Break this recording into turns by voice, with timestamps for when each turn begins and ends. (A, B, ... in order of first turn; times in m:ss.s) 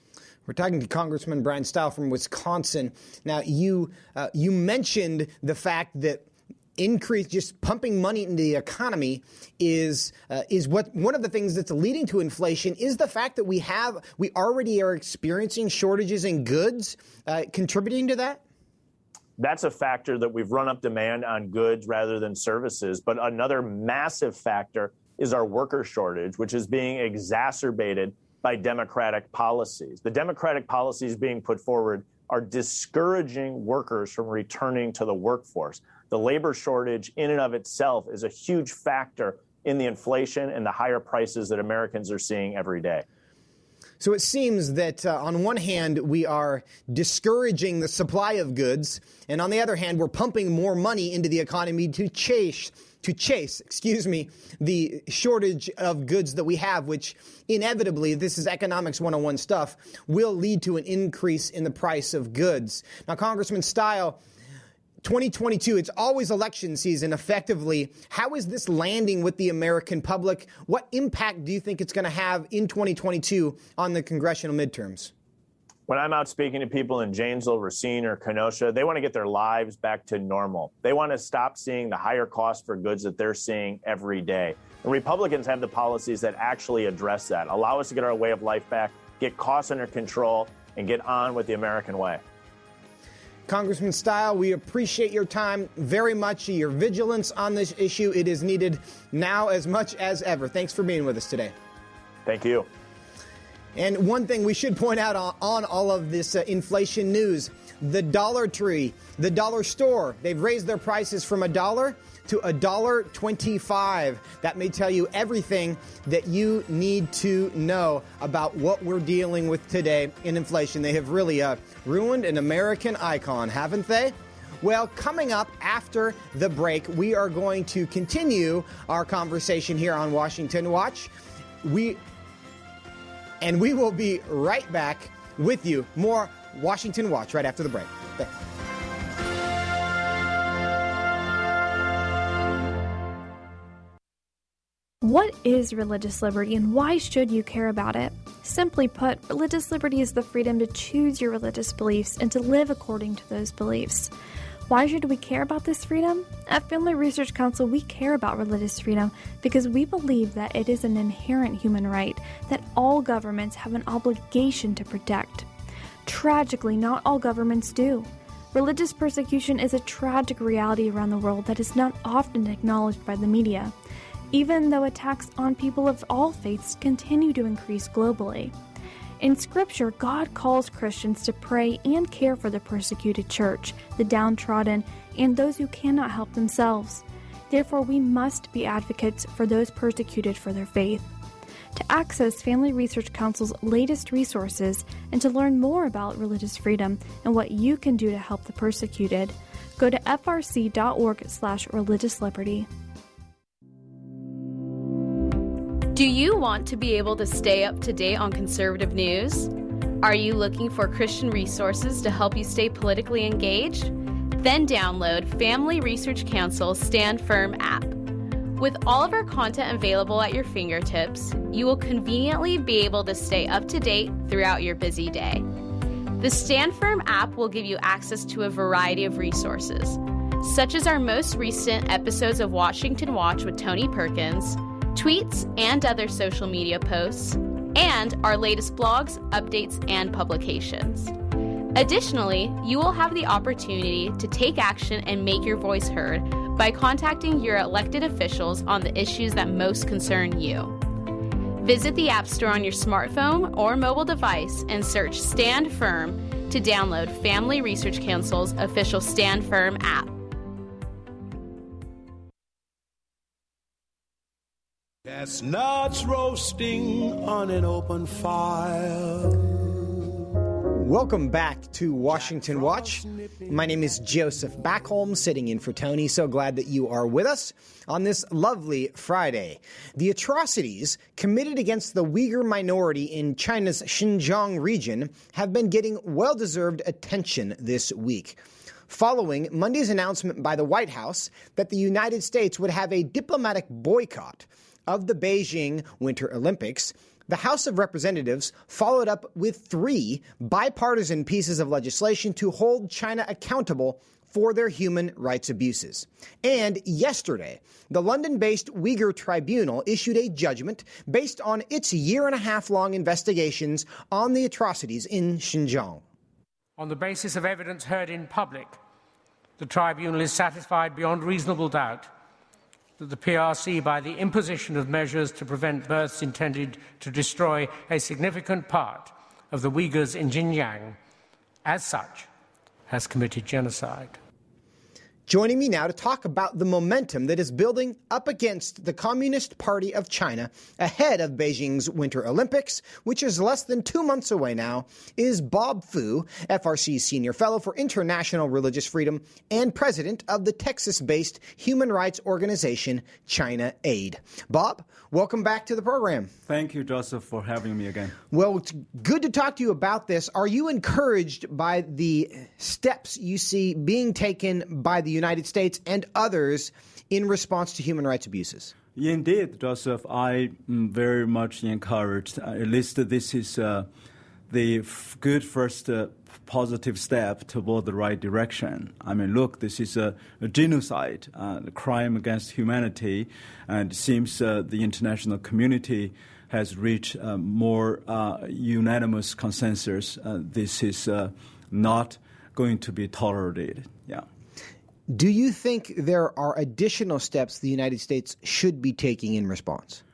0:00.5-0:18.4 A
0:19.4-0:43.0 B
0:44.0-1:04.2 A
1:05.0-1:15.1 A
1:15.9-1:32.2 B
1:33.5-1:41.5 A
1:42.3-1:42.7 B
1:43.8-2:11.1 A
2:11.6-2:12.0 A
2:13.4-2:18.3 A
2:25.0-2:34.1 C
2:34.7-2:45.5 C
2:46.1-2:53.7 C
2:54.3-2:58.5 C
2:59.2-3:11.1 C
3:11.7-3:22.7 C
3:25.9-3:38.0 D
3:38.6-3:45.4 D
3:46.2-4:01.1 D
4:01.7-4:10.8 D
4:11.6-4:20.2 D
4:25.1-4:30.0 E
4:30.7-5:16.0 A
4:32.1-4:33.6 E
5:16.8-5:18.8 F
5:19.6-5:22.1 F
5:23.0-5:31.0 F
5:31.6-5:32.3 F
5:32.9-5:34.2 F
5:35.3-5:56.3 A
5:56.5-5:58.2 G
5:58.3-6:08.7 A
6:09.0-6:13.9 G
6:14.5-6:34.2 G
6:35.1-6:40.0 A